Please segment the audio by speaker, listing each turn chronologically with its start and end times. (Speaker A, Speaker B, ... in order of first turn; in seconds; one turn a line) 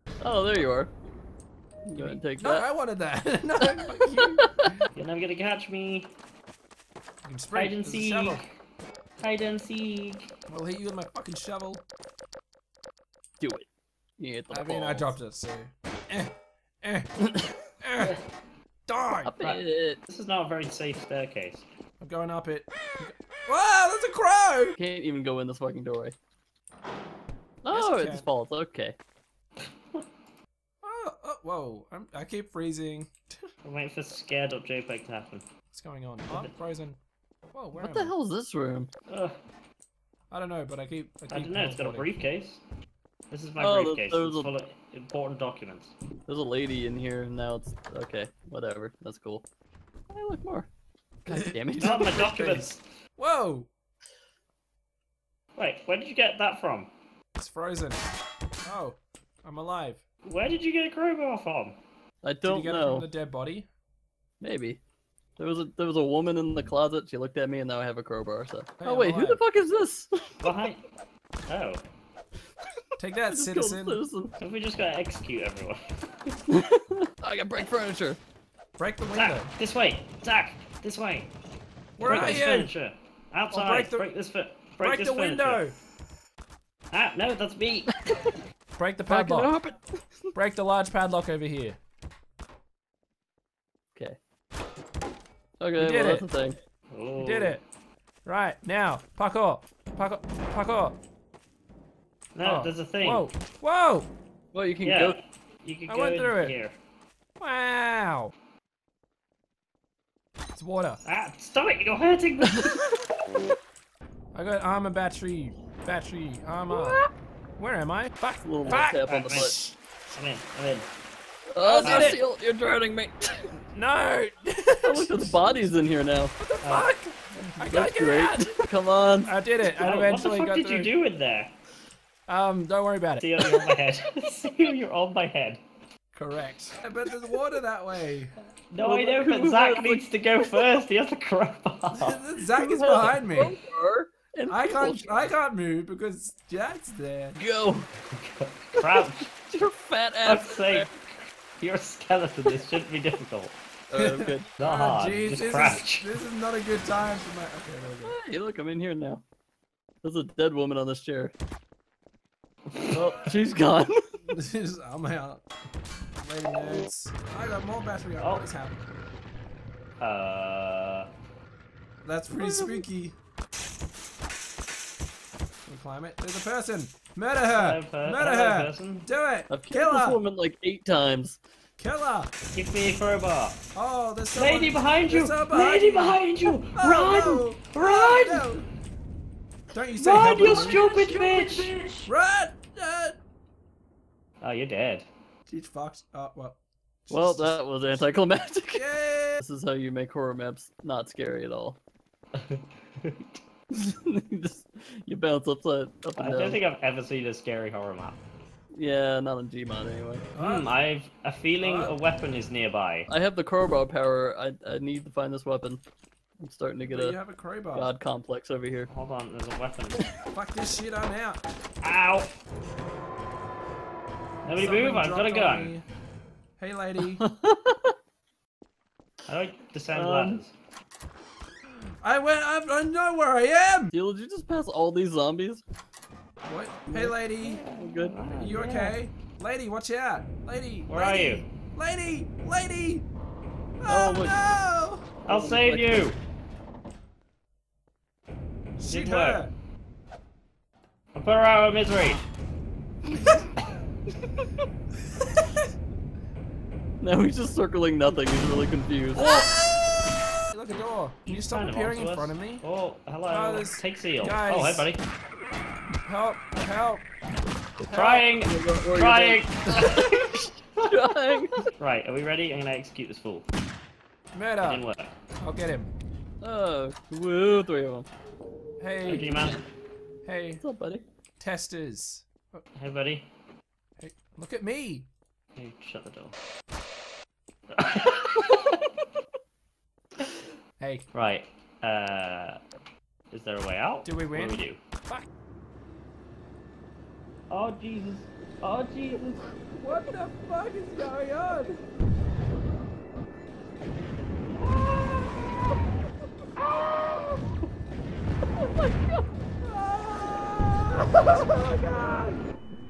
Speaker A: 0.2-0.9
Speaker A: 1.9-2.7
Speaker B: 2.0-4.9
Speaker A: 3.6-4.5
Speaker C: 5.0-6.1
Speaker B: 7.2-8.4
Speaker C: 7.5-8.5
Speaker C: 9.2-10.3
Speaker B: 10.5-11.8
Speaker A: 13.4-13.7
Speaker A: 14.2-15.1
Speaker B: 14.5-17.3
Speaker B: 17.8-18.1
Speaker B: 18.9-19.3
Speaker A: 19.2-20.0
Speaker C: 19.4-21.6
Speaker B: 22.0-24.8
Speaker A: 24.8-26.2
Speaker A: 27.6-29.0
Speaker B: 27.7-28.3
Speaker B: 30.8-33.4
Speaker C: 33.6-35.4
Speaker B: 35.7-37.0
Speaker B: 37.5-38.1
Speaker A: 37.8-38.9
Speaker C: 39.1-39.4
Speaker B: 40.3-42.1
Speaker C: 41.3-42.6
Speaker C: 43.3-45.9
Speaker A: 43.6-44.5
Speaker A: 46.3-49.5
Speaker A: 50.1-50.7
Speaker A: 51.3-52.0
Speaker B: 51.3-53.7
Speaker C: 51.8-52.8
Speaker C: 55.6-56.9
Speaker B: 57.4-58.1
Speaker B: 58.6-60.0
Speaker C: 60.2-61.8
Speaker A: 62.2-63.1
Speaker B: 62.4-63.7
Speaker A: 64.4-64.8
Speaker A: 65.4-70.5
Speaker B: 68.8-69.4
Speaker C: 70.4-70.8
Speaker C: 71.5-71.8
Speaker B: 73.0-74.0
Speaker A: 73.2-74.3
Speaker C: 74.4-75.8
Speaker A: 76.5-78.2
Speaker B: 78.8-79.5
Speaker C: 79.1-81.3
Speaker B: 82.0-82.7
Speaker C: 82.0-85.7
Speaker B: 83.5-84.1
Speaker B: 84.8-85.8
Speaker C: 86.9-87.9
Speaker A: 87.9-88.1
Speaker B: 88.8-89.5
Speaker A: 89.1-90.3
Speaker B: 90.3-91.8
Speaker A: 95.6-96.6
Speaker B: 95.8-96.3
Speaker C: 96.9-97.6
Speaker B: 97.2-97.6
Speaker B: 98.2-101.0
Speaker C: 102.3-103.3
Speaker B: 102.4-104.1
Speaker A: 104.5-105.2
Speaker C: 104.8-106.8
Speaker B: 105.9-106.6
Speaker B: 107.4-108.3
Speaker B: 110.5-111.0
Speaker C: 111.0-112.8
Speaker A: 112.4-112.9
Speaker B: 114.3-117.0
Speaker A: 116.7-117.1
Speaker B: 117.6-119.8
Speaker A: 118.4-119.5
Speaker C: 118.6-119.5
Speaker C: 120.2-120.9
Speaker A: 121.5-123.5
Speaker B: 121.6-122.2
Speaker C: 121.8-122.2
Speaker B: 123.7-125.7
Speaker A: 124.8-126.4
Speaker B: 126.4-128.6
Speaker C: 126.6-126.9
Speaker A: 127.4-129.3
Speaker B: 129.3-130.9
Speaker C: 129.7-131.5
Speaker B: 132.3-133.8
Speaker C: 133.2-135.6
Speaker B: 136.1-138.3
Speaker C: 138.7-142.2
Speaker A: 138.8-140.1
Speaker B: 141.9-143.6
Speaker A: 142.6-145.3
Speaker B: 144.5-147.4
Speaker A: 147.4-147.9
Speaker C: 148.2-149.3
Speaker A: 148.8-150.9
Speaker C: 150.2-153.6
Speaker A: 153.9-154.5
Speaker B: 153.9-158.2
Speaker C: 154.6-156.1
Speaker A: 158.0-159.2
Speaker A: 160.0-161.3
Speaker A: 162.9-164.0
Speaker B: 164.3-165.4
Speaker B: 166.2-168.8
Speaker C: 168.2-168.5
Speaker C: 170.0-171.1
Speaker B: 172.0-173.2
Speaker A: 172.4-172.8
Speaker B: 175.7-180.2
Speaker C: 177.5-179.1
Speaker A: 179.5-181.4
Speaker B: 181.8-182.3
Speaker C: 182.5-183.6
Speaker B: 183.7-188.7
Speaker C: 184.3-188.5
Speaker B: 189.7-193.2
Speaker C: 190.0-192.1
Speaker A: 190.3-191.3
Speaker C: 194.4-195.1
Speaker B: 195.5-197.6
Speaker A: 197.1-201.8
Speaker B: 198.7-199.4
Speaker C: 202.4-203.4
Speaker A: 203.7-206.6
Speaker C: 206.2-208.2
Speaker A: 208.7-210.3
Speaker B: 210.3-210.7
Speaker C: 210.4-213.1
Speaker B: 211.6-212.0
Speaker A: 213.1-215.8
Speaker A: 216.4-217.2
Speaker B: 216.9-217.9
Speaker A: 217.8-218.9
Speaker C: 218.9-220.0
Speaker B: 220.3-221.4
Speaker C: 221.8-222.4
Speaker B: 224.4-225.8
Speaker C: 224.5-225.8
Speaker B: 226.6-227.2
Speaker A: 227.2-227.9
Speaker C: 229.3-230.5
Speaker A: 229.9-230.4
Speaker B: 232.0-233.9
Speaker A: 233.9-235.6
Speaker B: 236.5-237.6
Speaker A: 236.9-238.2
Speaker C: 237.4-239.0
Speaker B: 238.3-243.1
Speaker C: 240.9-241.5
Speaker B: 243.8-245.2
Speaker A: 243.9-244.4
Speaker C: 245.3-246.2
Speaker A: 245.3-246.1
Speaker B: 248.8-249.5
Speaker C: 248.9-249.5
Speaker C: 251.2-252.2
Speaker A: 257.0-259.4
Speaker B: 259.1-259.5
Speaker B: 260.5-262.6
Speaker C: 261.3-265.0
Speaker B: 263.3-264.9
Speaker B: 266.1-267.1
Speaker C: 267.9-270.9
Speaker B: 267.9-268.2
Speaker A: 267.9-270.1
Speaker B: 269.7-270.1
Speaker A: 270.8-271.7
Speaker C: 271.8-273.4
Speaker B: 274.3-274.8
Speaker C: 274.6-275.1
Speaker B: 275.4-275.9
Speaker A: 276.4-278.1
Speaker B: 278.8-279.3
Speaker C: 279.0-279.6
Speaker B: 280.2-280.6
Speaker A: 280.6-281.1
Speaker B: 281.4-282.6
Speaker C: 282.7-283.3
Speaker B: 284.0-285.1
Speaker C: 285.6-286.4
Speaker C: 287.7-288.8
Speaker B: 290.8-291.1
Speaker C: 291.1-292.6
Speaker C: 293.3-294.8
Speaker B: 294.1-295.3
Speaker C: 297.5-299.4
Speaker B: 299.8-301.8
Speaker B: 309.6-312.4